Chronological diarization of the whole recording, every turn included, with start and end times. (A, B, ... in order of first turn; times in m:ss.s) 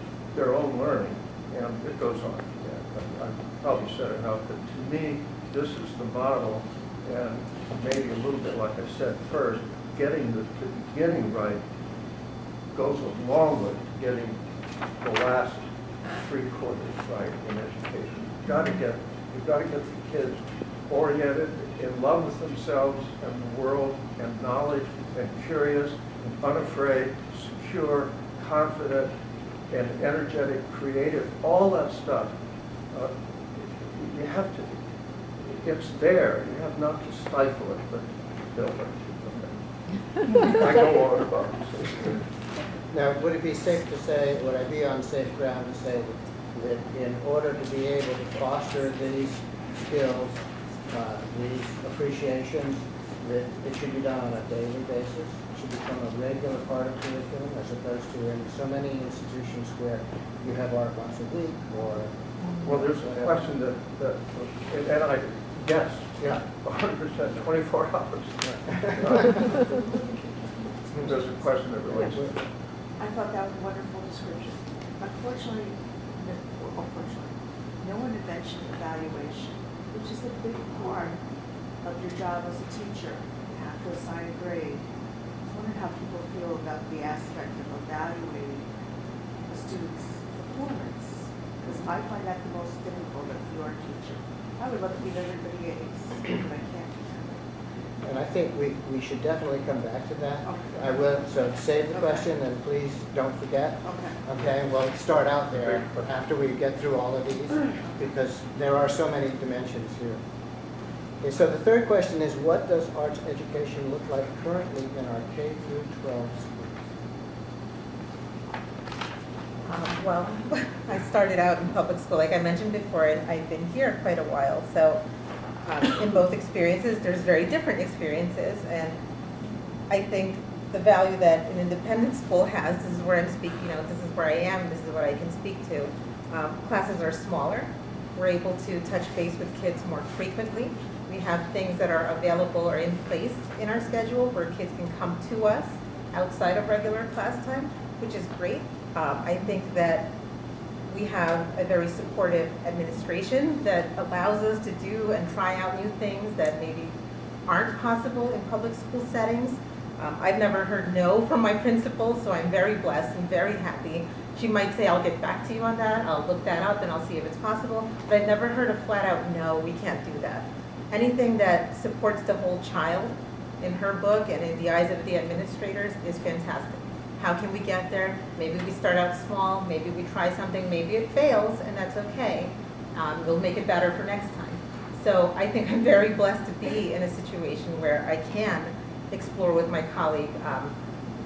0:00.3-0:11.6 A
0:12.7-0:14.4 A
0:15.0-0:15.6 A
0:16.2-0:29.1 A
0:29.7-0:32.3 A
0:32.9-0:34.8 A
0:35.4-0:39.6 A
0:40.2-0:42.2 A
0:42.9-0:50.4 B
0:50.9-1:03.4 B
1:02.6-1:09.7 A
1:10.2-1:10.9 C
1:11.0-1:12.4 A
1:12.0-1:12.3 B
1:13.0-1:21.2 C
1:21.8-1:24.8 C
1:25.4-1:28.7 C
1:29.5-1:37.4 C
1:38.0-1:50.2 B
1:40.4-1:40.8 C
1:41.9-1:42.2 C
1:43.8-1:44.2 C
1:45.7-1:46.0 A
1:51.2-1:56.7 B
1:59.7-2:05.0 D
2:05.6-2:09.0 D
2:09.9-2:30.1 D
2:30.9-2:36.9 D
2:37.5-3:10.8 D